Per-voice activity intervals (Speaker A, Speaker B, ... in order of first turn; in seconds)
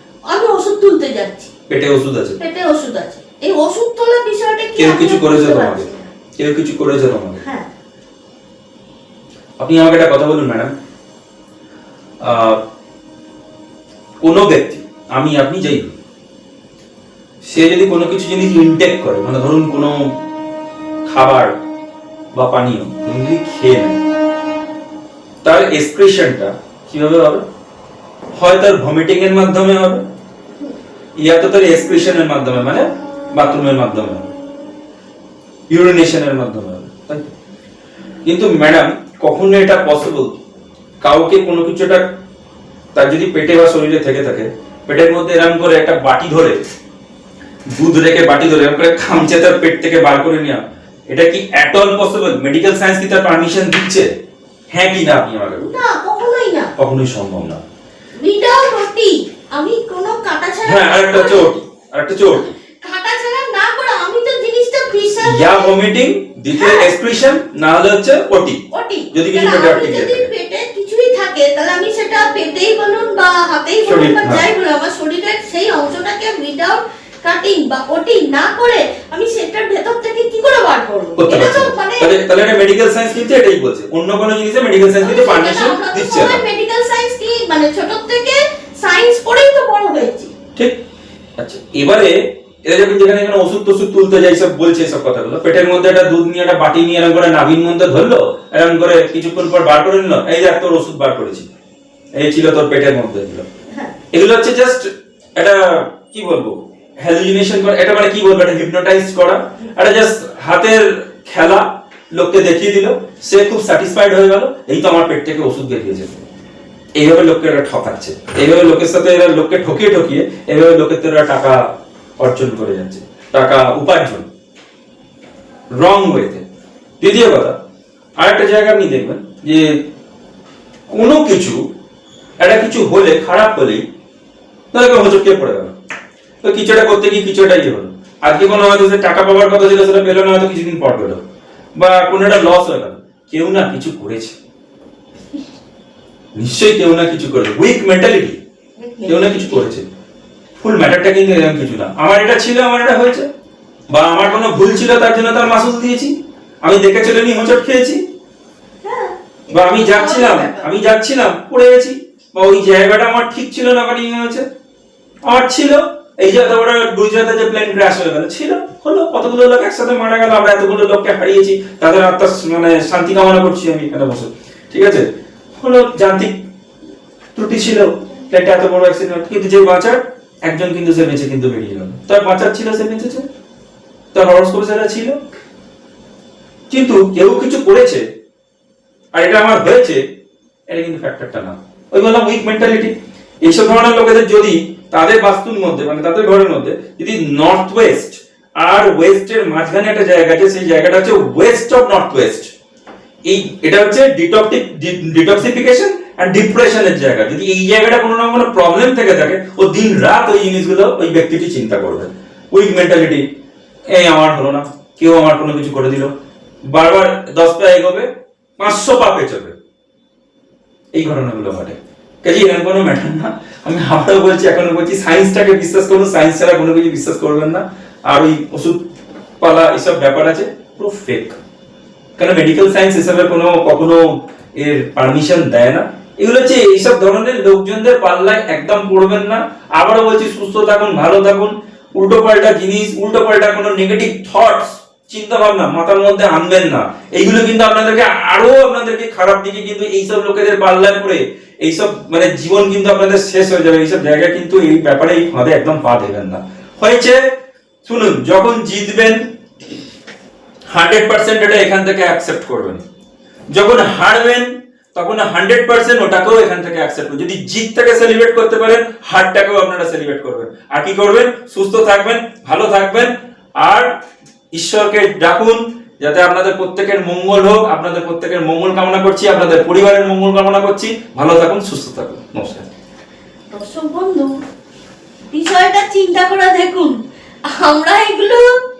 Speaker A: 0.3-1.5, 2.4-6.1, 7.4-7.7, 55.6-56.7, 58.2-61.5, 62.3-65.7, 66.5-66.9, 68.7-82.1, 85.0-90.3, 148.8-149.6, 158.8-160.7, 283.5-284.3, 285.3-288.4
Speaker B: 1.7-2.4, 4.8-7.4, 9.6-10.7, 12.2-12.6, 14.2-15.9, 17.4-20.1, 21.1-21.5, 22.3-24.0, 25.4-27.4, 28.4-30.0, 31.2-34.3, 35.7-37.3, 38.2-40.4, 41.0-42.1, 42.9-46.6, 47.7-54.1, 54.7-55.7, 56.8-57.6, 60.6-62.5, 65.2-68.6, 69.1-70.3, 73.8-74.5, 81.2-86.4, 91.4-101.5, 102.1-103.4, 104.1-116.2, 117.0-121.7, 122.2-124.3, 125.7-126.4, 127.0-127.5, 128.2-129.8, 130.9-131.6, 132.4-133.8, 134.7-135.7, 136.4-141.2, 141.8-144.3, 146.3-148.4, 149.1-149.8, 150.6-153.3, 153.9-158.0, 159.5-164.4, 165.2-176.4, 177.3-183.2, 184.1-185.2, 186.7-188.0, 189.1-190.0, 190.7-202.5, 203.2-213.2, 213.9-216.1, 216.6-218.1, 218.6-219.5, 220.9-228.8, 229.4-231.4, 232.2-257.2, 257.8-259.2, 260.7-262.8, 263.5-273.9, 274.5-282.6